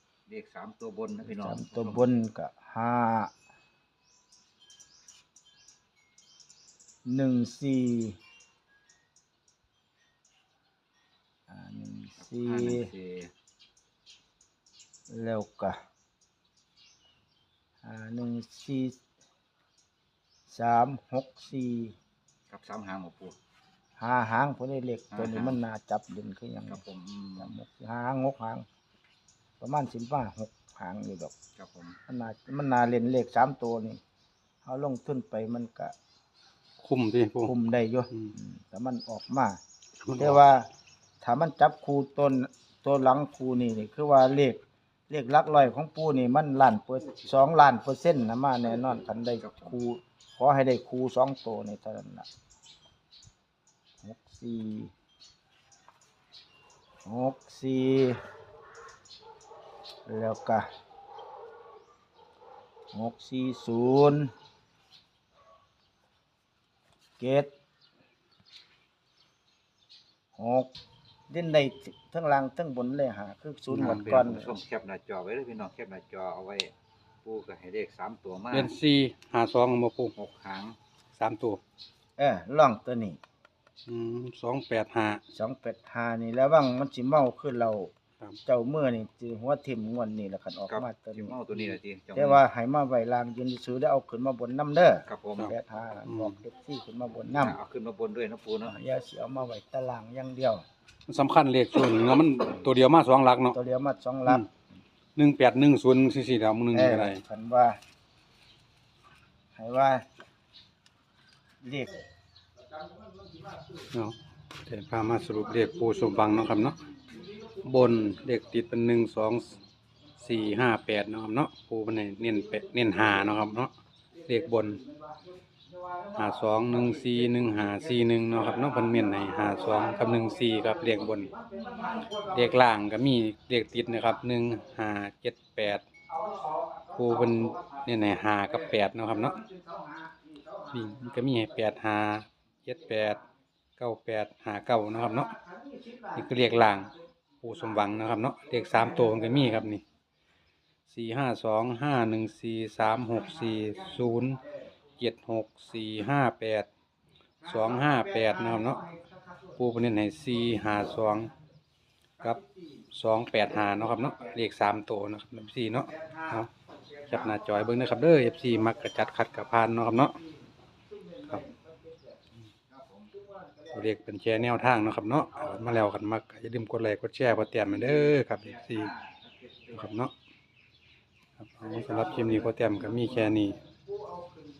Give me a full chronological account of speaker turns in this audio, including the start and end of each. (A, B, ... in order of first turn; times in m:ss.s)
0:00.3-0:02.0 A
0:01.2-0:03.3 B
0:07.1-0:08.2 B
0:11.5-0:12.9 B
0:12.2-0:13.3 A
0:15.1-0:15.8 B
0:17.8-0:18.9 B
0:20.5-0:21.9 B
0:22.5-0:23.3 A
0:24.0-0:26.8 B
0:25.1-0:25.6 A
0:26.7-0:27.5 A
0:27.4-0:28.6 B
0:29.6-0:31.3 B
0:31.6-0:32.0 A
0:32.1-0:34.0 B
0:34.6-0:35.9 B
0:36.8-0:37.5 C
0:37.4-0:39.6 B
0:40.0-0:40.4 C
0:40.2-0:40.7 B
0:41.2-0:52.3 B
0:48.6-0:49.7 A
0:54.0-0:54.9 B
0:57.0-0:58.2 B
1:00.1-1:00.6 B
1:02.9-1:04.3 B
1:07.2-1:07.5 B
1:10.4-1:10.7 B
1:11.3-1:14.5 B
1:13.7-1:14.1 C
1:13.7-1:16.7 A
1:17.2-1:18.7 A
1:18.5-1:20.1 C
1:20.2-1:20.8 A
1:21.2-1:21.6 C
1:22.2-1:23.2 B
1:23.8-1:25.2 C
1:25.3-1:27.9 B
1:28.4-1:31.4 B
1:30.7-1:32.4 A
1:32.1-1:37.5 B
1:35.1-1:35.5 A
1:36.0-1:36.4 C
1:37.4-1:38.8 A
1:38.6-1:40.6 B
1:41.1-1:43.6 C
1:43.5-1:44.5 B
1:45.2-1:47.2 C
1:46.7-1:47.8 B
1:49.5-1:50.0 B
1:51.6-1:52.0 B
1:53.9-1:56.8 C
1:56.0-1:56.4 B
1:57.6-1:59.6 C
2:00.2-2:03.7 C
2:02.5-2:03.3 B
2:04.2-2:12.5 B
2:04.3-2:04.8 C
2:06.2-2:11.3 C
2:12.3-2:15.8 C
2:16.1-2:21.7 B
2:16.9-2:19.4 C
2:20.7-2:23.2 C
2:22.7-2:23.2 B
2:23.8-2:25.3 C
2:24.9-2:26.9 B
2:26.1-2:29.8 C
2:27.5-2:29.6 B
2:30.9-2:34.4 C
2:33.3-2:34.4 B
2:35.0-2:36.7 C
2:37.4-2:39.5 B
2:37.5-2:38.8 C
2:39.6-2:41.3 C
2:42.2-2:42.6 B
2:42.9-2:46.5 C
2:45.9-2:46.4 B
2:47.1-2:50.2 C
2:47.1-2:47.4 B
2:48.3-2:48.9 B
2:50.9-2:52.1 B
2:52.7-2:53.1 A
2:53.2-2:53.8 B
2:53.7-2:58.9 C
2:55.3-2:55.9 B
2:57.6-3:00.0 A
2:59.7-3:00.1 C
3:01.4-3:03.6 C
3:01.7-3:02.7 A
3:01.9-3:04.4 B